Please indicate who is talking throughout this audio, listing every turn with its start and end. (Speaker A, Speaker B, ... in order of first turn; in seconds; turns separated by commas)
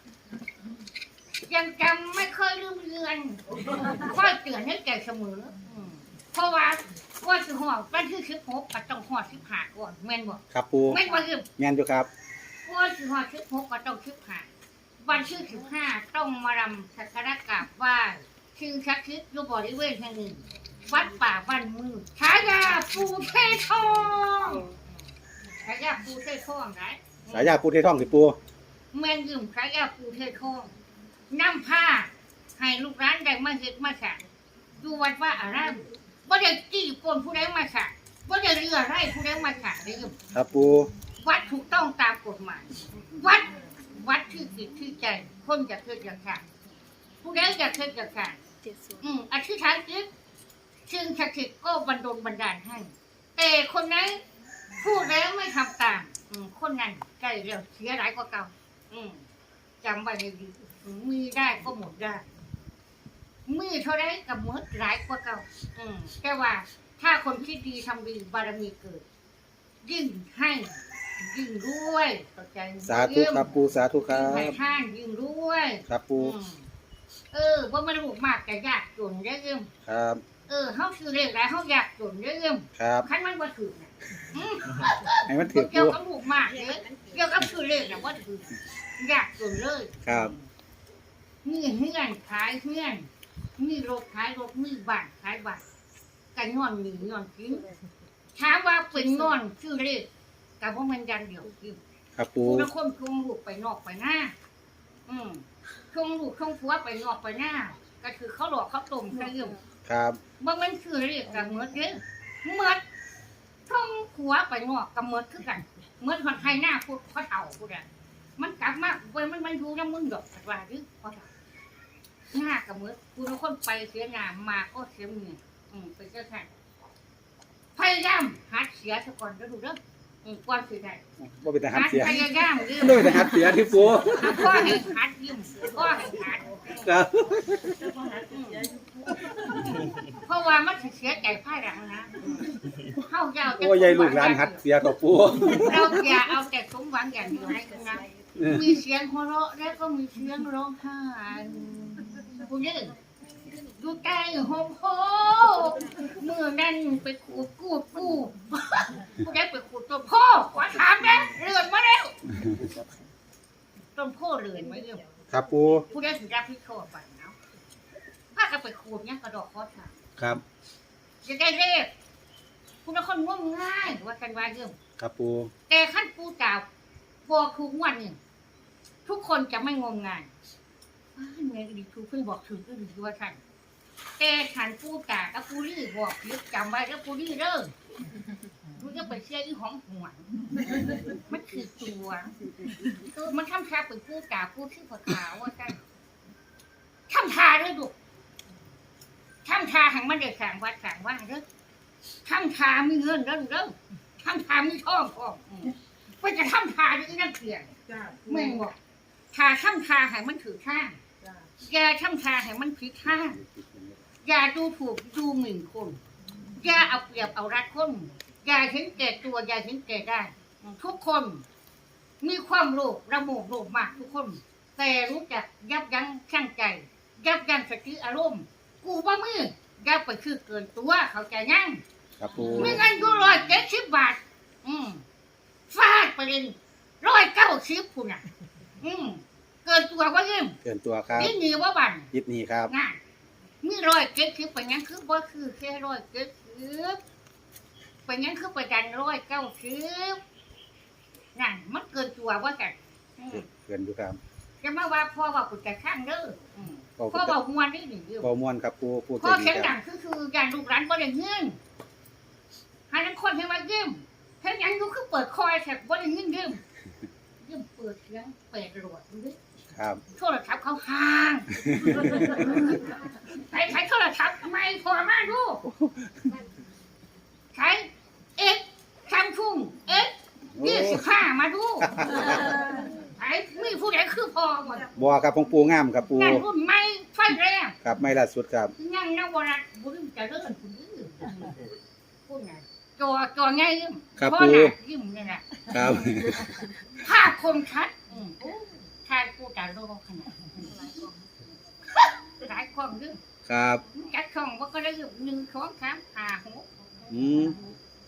Speaker A: 1.4-11.5, Speaker B: 10.5-11.0, Speaker B: 11.6-12.1, Speaker A: 12.6-14.5, Speaker A: 15.0-24.9, Speaker A: 25.5-27.6, Speaker B: 27.3-28.4, Speaker A: 28.9-30.7, Speaker A: 31.3-34.2, Speaker A: 34.8-40.1, Speaker B: 40.3-40.9, Speaker A: 41.2-46.4, Speaker A: 47.2-48.4, Speaker A: 49.0-50.1, Speaker A: 50.9-54.2, Speaker A: 54.8-59.2, Speaker A: 59.8-62.2, Speaker A: 63.5-69.0, Speaker A: 69.8-76.7, Speaker B: 72.8-74.5, Speaker B: 75.9-76.3, Speaker A: 77.3-79.7, Speaker B: 79.8-80.2, Speaker A: 80.5-90.5, Speaker B: 82.8-83.1, Speaker B: 85.2-86.0, Speaker B: 90.0-90.3, Speaker A: 91.4-95.6, Speaker A: 96.3-97.6, Speaker A: 98.3-100.1, Speaker A: 100.6-101.8, Speaker B: 102.2-102.7, Speaker A: 102.4-104.3, Speaker A: 105.1-109.6, Speaker B: 109.8-110.2, Speaker A: 110.4-112.8, Speaker A: 113.7-117.8, Speaker A: 118.4-121.3, Speaker A: 122.3-126.5, Speaker A: 127.7-131.0, Speaker B: 131.2-134.6, Speaker A: 131.7-133.4, Speaker A: 134.1-136.9, Speaker B: 136.8-137.8, Speaker C: 137.8-139.6, Speaker A: 138.3-138.7, Speaker A: 140.1-144.6, Speaker B: 143.5-146.1, Speaker A: 145.6-152.9, Speaker B: 148.4-148.6, Speaker A: 153.7-162.2, Speaker A: 163.9-165.1, Speaker B: 165.3-165.8, Speaker A: 165.9-167.3, Speaker A: 168.3-170.0, Speaker B: 170.2-170.4, Speaker A: 171.2-171.9, Speaker A: 172.8-174.8, Speaker B: 175.0-175.5, Speaker A: 175.7-176.7, Speaker A: 177.3-178.2, Speaker A: 179.0-180.3, Speaker A: 181.1-183.4, Speaker A: 184.2-187.7, Speaker A: 188.7-192.3, Speaker A: 192.8-195.8, Speaker A: 197.1-197.9, Speaker A: 199.4-201.4, Speaker A: 202.2-207.7, Speaker C: 207.9-208.6, Speaker A: 208.3-208.8, Speaker A: 209.3-211.0, Speaker C: 211.2-211.5, Speaker A: 211.6-213.4, Speaker B: 213.4-214.0, Speaker A: 214.2-216.0, Speaker A: 216.6-221.4, Speaker A: 222.2-231.8, Speaker B: 232.2-232.8, Speaker A: 232.4-235.0, Speaker A: 235.7-238.2, Speaker A: 238.8-240.6, Speaker B: 240.6-241.3, Speaker A: 241.2-242.1, Speaker B: 242.1-242.7, Speaker A: 242.7-243.0, Speaker A: 243.6-247.0, Speaker A: 248.1-250.2, Speaker A: 251.3-253.4, Speaker B: 253.3-254.2, Speaker A: 254.6-258.3, Speaker B: 257.0-257.4, Speaker B: 258.2-259.7, Speaker A: 259.2-261.6, Speaker A: 262.9-266.6, Speaker A: 267.4-269.4, Speaker B: 269.7-270.0, Speaker A: 270.1-275.6, Speaker B: 271.6-272.4, Speaker B: 275.6-276.4, Speaker A: 277.5-284.9, Speaker B: 280.5-281.1, Speaker B: 281.9-282.3, Speaker C: 282.5-282.8, Speaker B: 284.9-286.4, Speaker A: 286.2-287.8, Speaker B: 287.8-288.7, Speaker A: 288.8-291.6, Speaker A: 292.2-295.4, Speaker B: 294.2-294.7, Speaker B: 295.6-296.6, Speaker A: 296.9-300.8, Speaker C: 300.7-301.2, Speaker A: 302.2-303.2, Speaker B: 303.5-303.8, Speaker A: 303.9-307.6, Speaker B: 307.1-307.6